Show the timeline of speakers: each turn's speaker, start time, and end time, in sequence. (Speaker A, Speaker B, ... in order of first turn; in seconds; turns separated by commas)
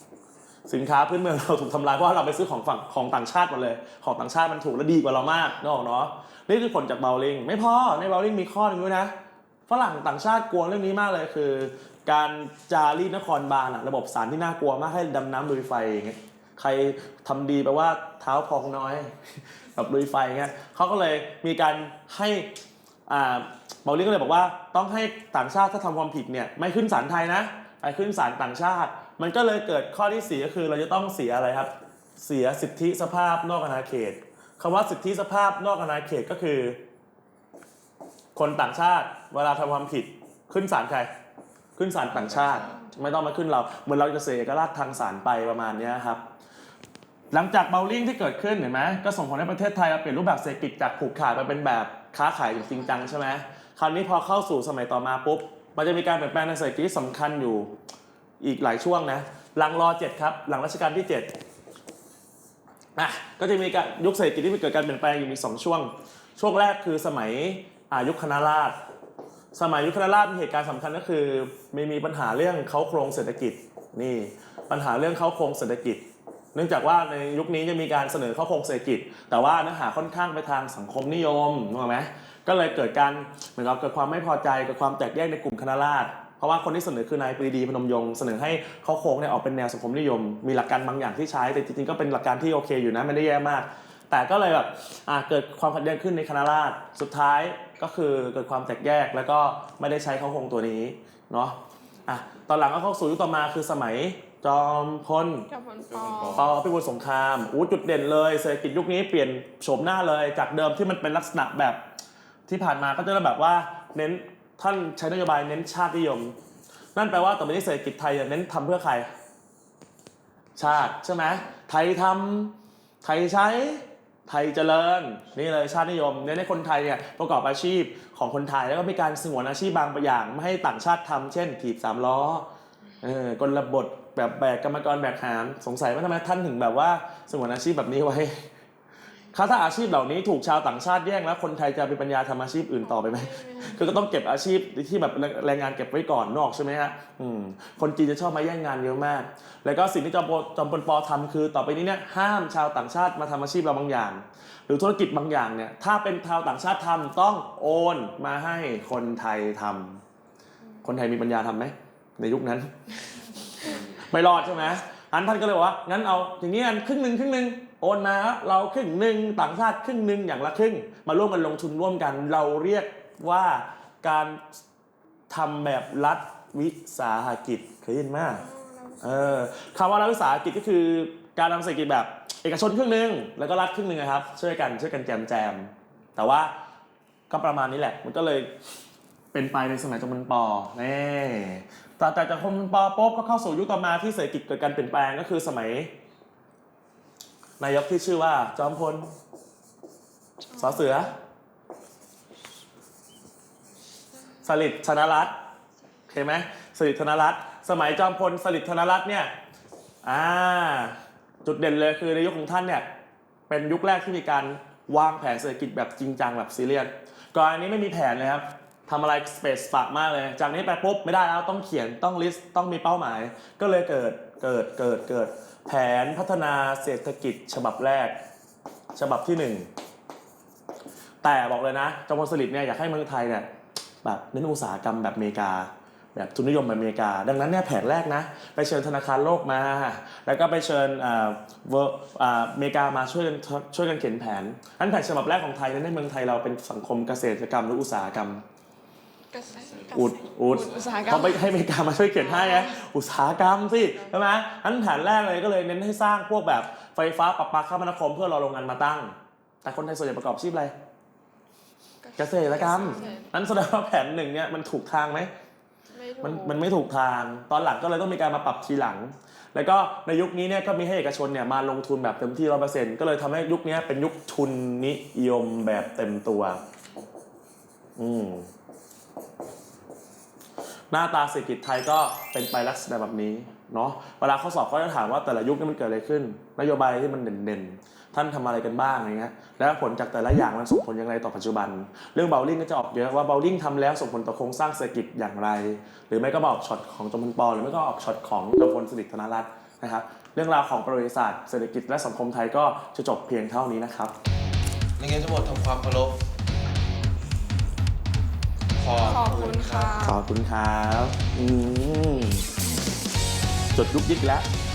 Speaker A: 0.7-9.1, Speaker A: 9.7-22.5, Speaker A: 23.1-36.8, Speaker A: 38.4-41.1, Speaker A: 41.8-46.2, Speaker B: 42.2-42.8, Speaker A: 47.3-57.7, Speaker A: 58.4-61.3, Speaker A: 63.0-68.8, Speaker A: 69.5-76.0, Speaker A: 76.5-105.5, Speaker C: 105.5-106.5, Speaker B: 105.9-106.5, Speaker A: 106.3-111.8, Speaker A: 112.5-116.3, Speaker A: 117.0-119.1, Speaker A: 120.6-132.5, Speaker A: 133.0-138.4, Speaker A: 139.3-160.0, Speaker C: 142.8-143.8, Speaker A: 160.8-162.7, Speaker A: 163.7-174.4, Speaker A: 175.3-178.4, Speaker C: 178.4-179.4, Speaker A: 179.0-186.5, Speaker A: 187.3-188.5, Speaker A: 189.3-195.9, Speaker A: 197.6-199.1, Speaker C: 200.5-200.8, Speaker A: 200.6-201.1, Speaker A: 204.4-205.4, Speaker A: 206.1-209.3, Speaker A: 210.0-212.9, Speaker A: 213.5-228.2, Speaker A: 228.9-229.7, Speaker A: 231.2-233.5, Speaker A: 234.0-248.4, Speaker C: 249.3-251.5, Speaker B: 249.7-250.0, Speaker A: 249.9-260.7, Speaker B: 250.6-251.1, Speaker C: 252.2-252.7, Speaker C: 262.0-263.3, Speaker A: 262.2-265.3, Speaker C: 265.9-266.6, Speaker A: 266.2-276.6, Speaker A: 278.0-278.5, Speaker A: 280.9-304.1, Speaker B: 305.0-306.2, Speaker B: 308.8-310.1, Speaker C: 309.0-310.2, Speaker A: 310.0-312.5, Speaker A: 313.8-314.5